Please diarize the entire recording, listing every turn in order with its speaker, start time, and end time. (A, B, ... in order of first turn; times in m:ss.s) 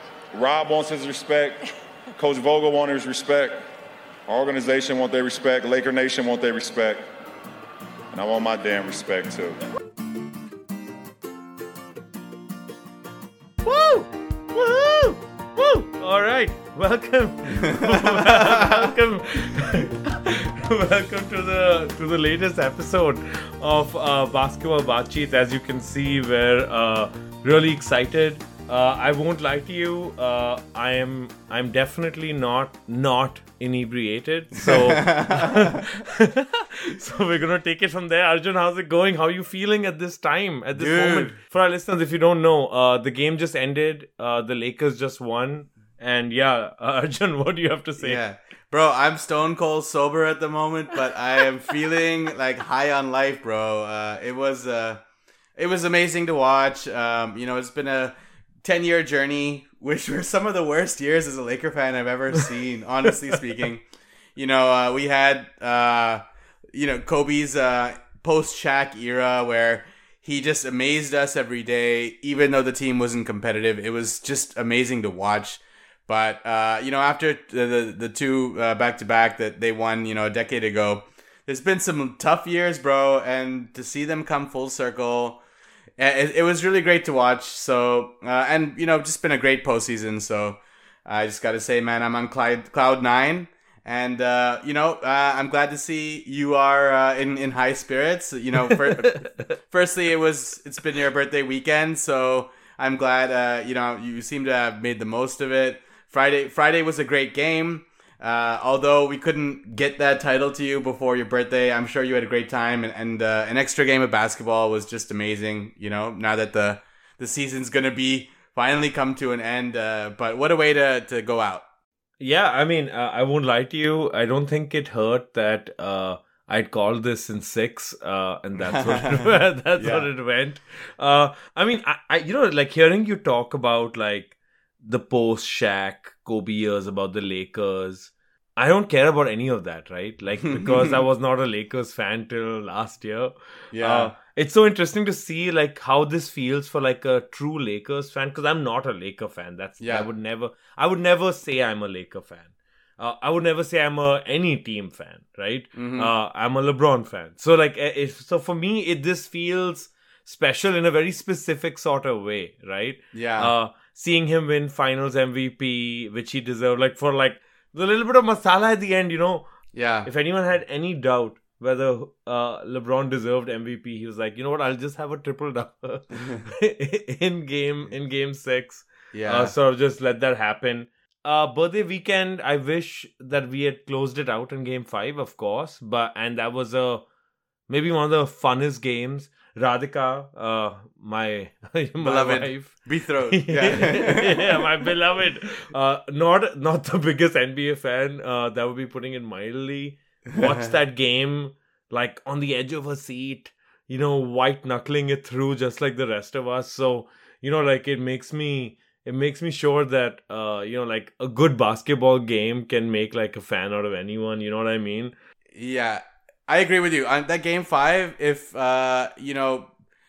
0:00.3-0:03.6 A
0:04.3-0:07.0 A
0:08.1-0:09.6 A
0:13.6-0:48.2 B
0:17.6-0:18.9 C
0:34.5-0:35.8 C
0:40.8-0:41.4 C
0:48.0-0:55.0 C
0:55.6-1:03.8 C
1:04.4-1:25.4 C
1:26.0-2:01.6 C
1:38.6-1:39.5 B
2:02.2-2:49.5 B
2:08.6-2:10.1 C
2:20.4-2:21.0 C
2:23.7-2:24.1 C
2:29.8-2:30.1 C
2:35.7-2:36.1 C
2:43.1-2:43.5 C
2:49.7-2:50.1 C
2:50.0-3:07.0 B
2:59.1-2:59.5 C
3:07.7-3:35.1 B
3:12.0-3:14.6 C
3:20.2-3:20.7 C
3:35.5-3:39.7 C